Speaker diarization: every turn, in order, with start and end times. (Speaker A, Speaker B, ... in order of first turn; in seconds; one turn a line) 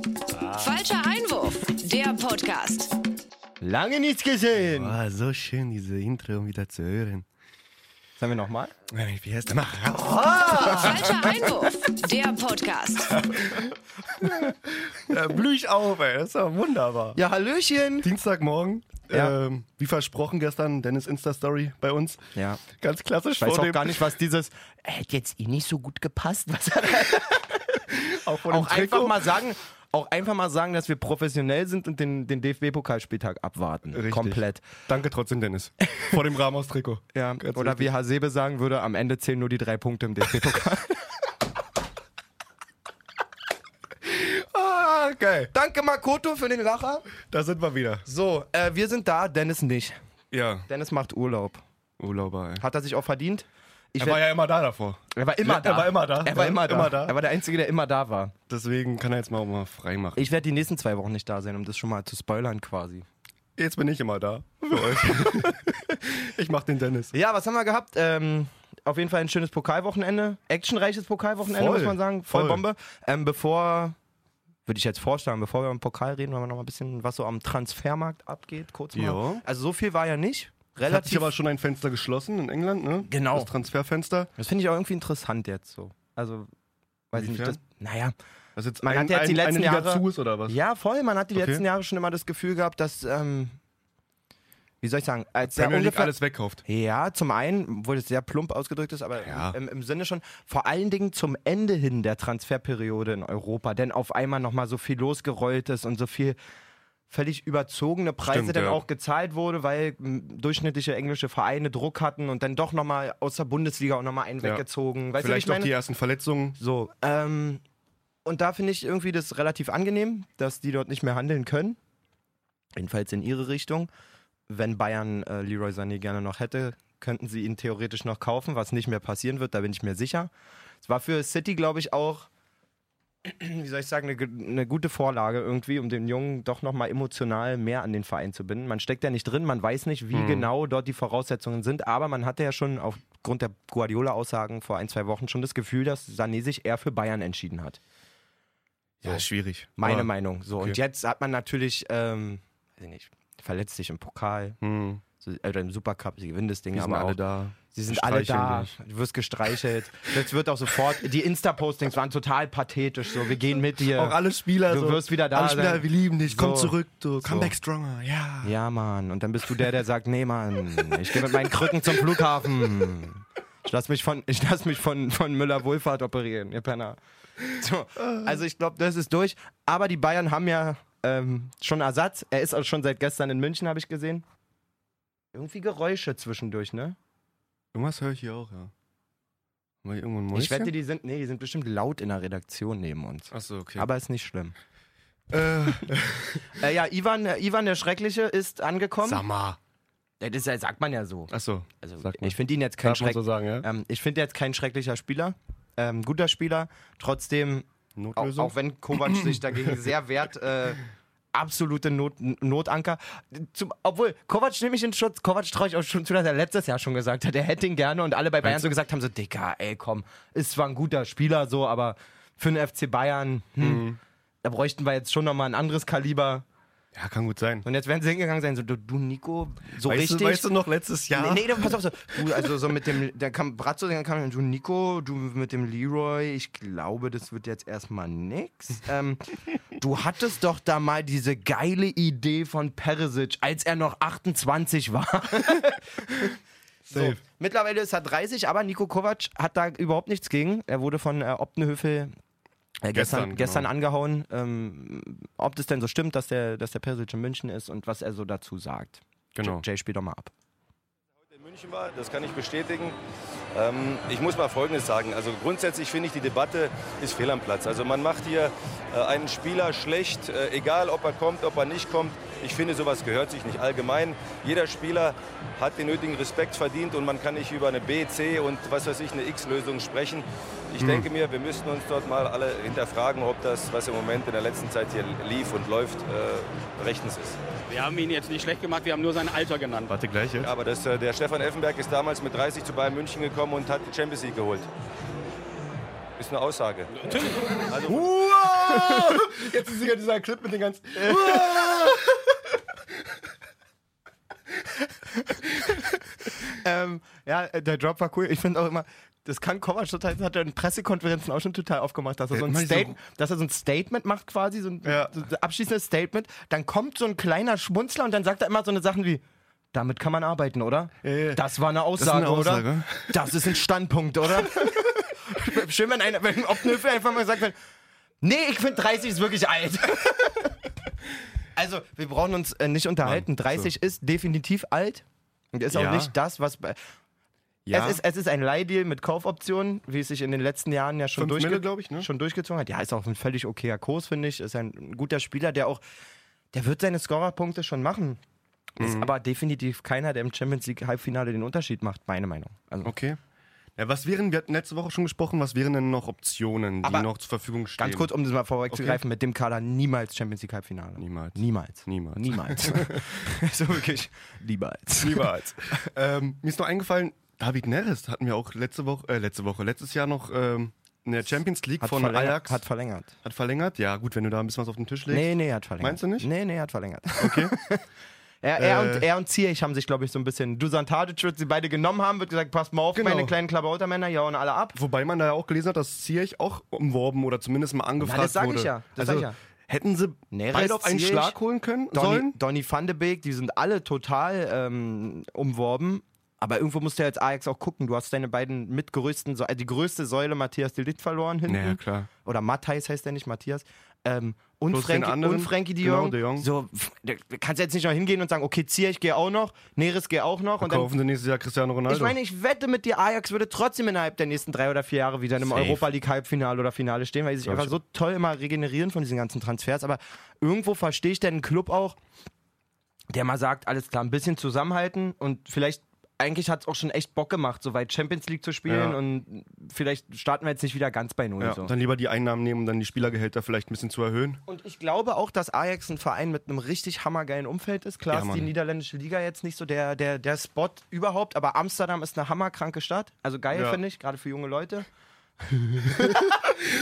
Speaker A: 0.3-0.6
Speaker B: 0.5-2.9
Speaker C: 3.6-5.0
Speaker A: 4.5-7.2
Speaker C: 8.2-8.7
Speaker A: 8.9-11.1
Speaker C: 10.5-10.9
Speaker B: 10.6-13.3
Speaker A: 13.1-17.2
Speaker C: 17.1-18.1
Speaker A: 18.0-24.1
Speaker C: 19.1-19.4
Speaker C: 22.3-22.6
Speaker C: 23.4-27.8
Speaker A: 27.9-29.4
Speaker C: 28.4-34.7
Speaker A: 33.9-37.9
Speaker C: 37.1-41.0
Speaker A: 44.0-45.5
Speaker C: 45.5-47.1
Speaker A: 47.2-48.0
Speaker C: 48.0-50.0
Speaker A: 50.3-50.7
Speaker C: 50.7-51.6
Speaker A: 52.0-52.6
Speaker C: 52.6-54.3
Speaker A: 54.0-57.1
Speaker C: 55.1-58.3
Speaker A: 58.5-60.2
Speaker C: 60.1-63.0
Speaker A: 63.6-67.1
Speaker C: 64.7-65.6
Speaker C: 67.1-74.0
Speaker A: 71.5-72.6
Speaker C: 74.7-81.3
Speaker A: 78.9-79.4
Speaker A: 80.8-84.3
Speaker C: 83.1-83.5
Speaker C: 84.4-86.5
Speaker C: 87.1-88.1
Speaker A: 87.1-87.6
Speaker A: 88.5-90.5
Speaker C: 88.8-93.5
Speaker A: 91.3-91.6
Speaker C: 94.8-96.1
Speaker A: 95.5-96.6
Speaker C: 96.6-106.4
Speaker A: 99.2-99.6
Speaker C: 107.1-115.7
Speaker A: 108.3-108.8
Speaker A: 115.2-116.6
Speaker C: 116.6-117.6
Speaker C: 118.2-121.8
Speaker C: 122.8-123.9
Speaker C: 124.5-130.3
Speaker C: 130.8-132.3
Speaker C: 133.2-147.8
Speaker A: 140.1-140.5
Speaker A: 149.0-150.8
Speaker C: 149.8-154.6
Speaker A: 154.6-155.0
Speaker C: 155.2-157.2
Speaker A: 156.7-158.7
Speaker C: 157.7-164.2
Speaker A: 163.9-168.5
Speaker C: 164.7-167.5
Speaker C: 168.4-184.2
Speaker A: 170.9-172.2
Speaker A: 178.0-178.3
Speaker C: 185.3-187.0
Speaker A: 187.7-188.7
Speaker A: 189.8-190.7
Speaker C: 190.3-194.6
Speaker A: 193.3-193.9
Speaker A: 195.3-196.5
Speaker C: 196.5-199.2
Speaker A: 199.0-199.6
Speaker C: 200.2-210.8
Speaker A: 201.3-203.7
Speaker A: 207.9-209.9
Speaker C: 211.3-223.8
Speaker A: 223.6-224.0
Speaker C: 224.4-226.4
Speaker A: 226.9-227.7
Speaker C: 227.6-230.5
Speaker A: 229.8-232.5
Speaker C: 231.1-246.3
Speaker A: 246.9-247.2
Speaker C: 246.9-252.1
Speaker C: 252.8-260.3
Speaker A: 252.9-253.7
Speaker A: 259.3-259.6
Speaker D: 261.3-263.0
Speaker D: 263.5-287.4
Speaker A: 280.8-281.1
Speaker E: 287.7-289.9
Speaker A: 289.8-290.5
Speaker D: 290.4-294.7
Speaker D: 296.2-296.9
Speaker E: 297.0-297.6
Speaker D: 297.7-298.1
Speaker A: 297.9-302.2
Speaker C: 298.4-299.2
Speaker C: 300.9-302.0
Speaker C: 306.4-327.6
Speaker A: 312.3-313.0
Speaker A: 314.8-315.1
Speaker A: 321.0-321.4
Speaker A: 322.0-323.5
Speaker A: 324.4-324.8
Speaker C: 328.2-330.6
Speaker C: 331.6-336.8
Speaker A: 333.0-333.7
Speaker A: 335.7-336.1
Speaker A: 337.7-338.0
Speaker C: 337.7-345.8
Speaker A: 341.1-342.1
Speaker C: 346.5-348.2
Speaker C: 348.8-352.9
Speaker A: 348.8-349.1
Speaker A: 352.8-353.2
Speaker A: 353.8-358.1
Speaker C: 356.8-357.1
Speaker C: 357.8-365.9
Speaker A: 358.7-359.0
Speaker A: 361.0-363.0
Speaker A: 365.0-372.6
Speaker C: 371.8-373.1
Speaker A: 373.2-376.3
Speaker C: 375.1-377.8
Speaker A: 377.2-377.5
Speaker C: 378.4-384.8
Speaker A: 378.6-379.1
Speaker A: 382.9-383.4
Speaker A: 384.7-392.4
Speaker C: 388.0-389.4
Speaker C: 390.3-391.4
Speaker C: 391.9-410.9
Speaker A: 401.5-402.1
Speaker A: 404.7-406.5
Speaker A: 410.6-412.2
Speaker C: 411.9-422.0
Speaker A: 415.4-415.9
Speaker A: 417.4-417.8
Speaker C: 423.1-431.7
Speaker A: 428.7-429.0
Speaker A: 431.4-434.4
Speaker C: 434.5-444.9
Speaker A: 438.1-438.5
Speaker A: 443.5-443.8
Speaker C: 445.4-446.5
Speaker A: 445.9-446.4